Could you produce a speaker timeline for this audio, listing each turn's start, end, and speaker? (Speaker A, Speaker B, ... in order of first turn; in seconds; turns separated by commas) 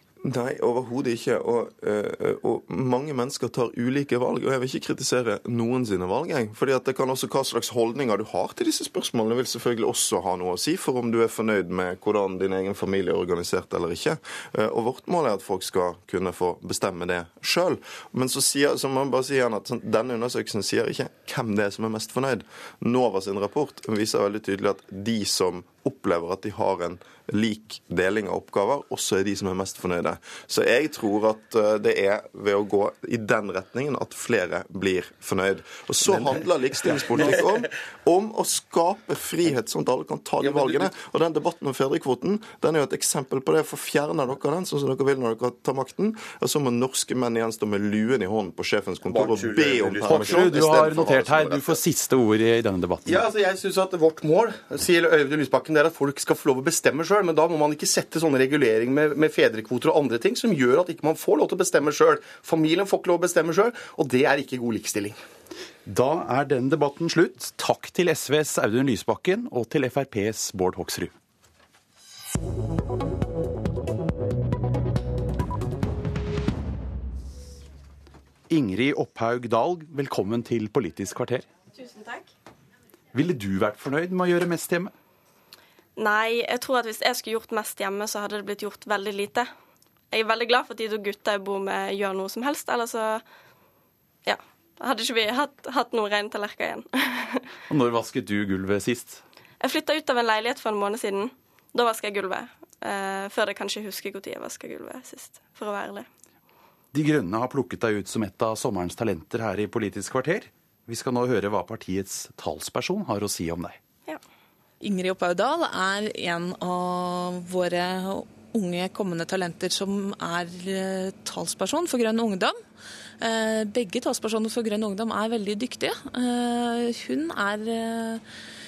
Speaker A: 0.2-51.7, Speaker B: 36.0-37.5, Speaker B: 40.4-40.9, Speaker B: 49.0-50.7, Speaker C: 50.0-53.3, Speaker B: 53.1-65.2, Speaker C: 65.8-71.1, Speaker C: 78.5-81.5, Speaker D: 81.7-82.3, Speaker C: 83.1-84.9, Speaker D: 86.0-89.5, Speaker D: 90.1-93.2, Speaker D: 94.2-97.4, Speaker C: 97.7-99.2, Speaker D: 99.6-106.1, Speaker C: 106.9-113.8, Speaker E: 114.8-122.5, Speaker E: 123.2-128.2